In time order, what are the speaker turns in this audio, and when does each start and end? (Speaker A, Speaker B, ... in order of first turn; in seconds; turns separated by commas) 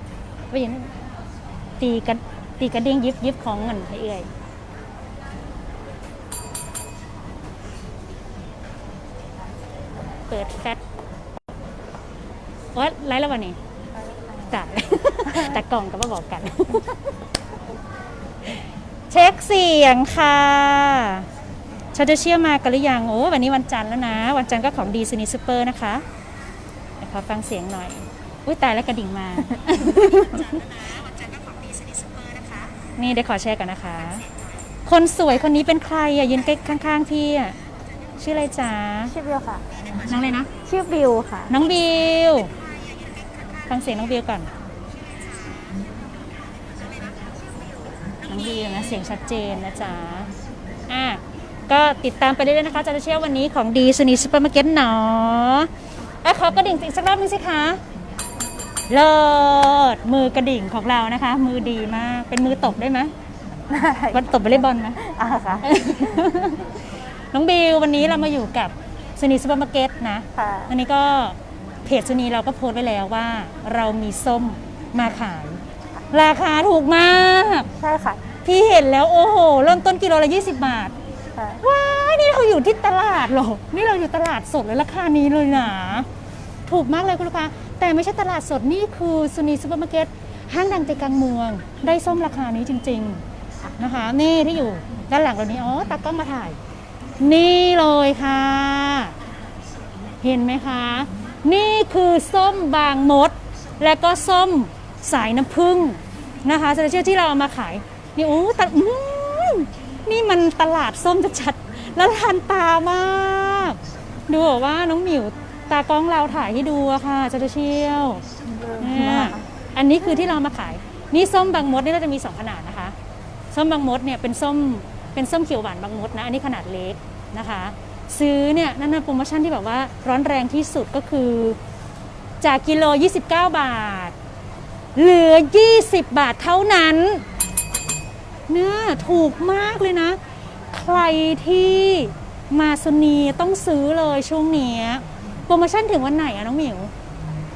Speaker A: 0.5-0.9, Speaker A: 1.8-4.3, Speaker A: 10.3-10.8, Speaker A: 12.7-13.6, Speaker A: 14.5-17.1, Speaker A: 19.1-21.3, Speaker A: 21.9-26.0, Speaker A: 27.0-34.3, Speaker A: 34.9-37.6, Speaker A: 38.2-39.2, Speaker B: 39.1-39.6, Speaker A: 40.0-40.5, Speaker B: 40.6-41.5, Speaker A: 41.5-42.5, Speaker A: 43.6-44.5, Speaker A: 48.2-50.3, Speaker A: 50.9-55.7, Speaker A: 56.2-57.8, Speaker A: 58.9-63.1, Speaker B: 63.7-64.4, Speaker A: 64.1-65.0, Speaker B: 65.0-65.7, Speaker A: 65.6-75.6, Speaker B: 70.4-70.7, Speaker A: 76.1-77.7, Speaker B: 77.8-78.2, Speaker A: 78.4-81.0, Speaker B: 81.3-81.6, Speaker A: 81.6-86.1, Speaker A: 86.7-93.2, Speaker A: 93.8-96.6, Speaker A: 97.2-99.2, Speaker A: 100.2-118.2, Speaker B: 118.5-119.5, Speaker A: 118.8-123.0, Speaker A: 123.5-131.6, Speaker A: 132.4-134.2, Speaker A: 135.0-137.2, Speaker A: 138.5-140.2, Speaker A: 140.7-146.9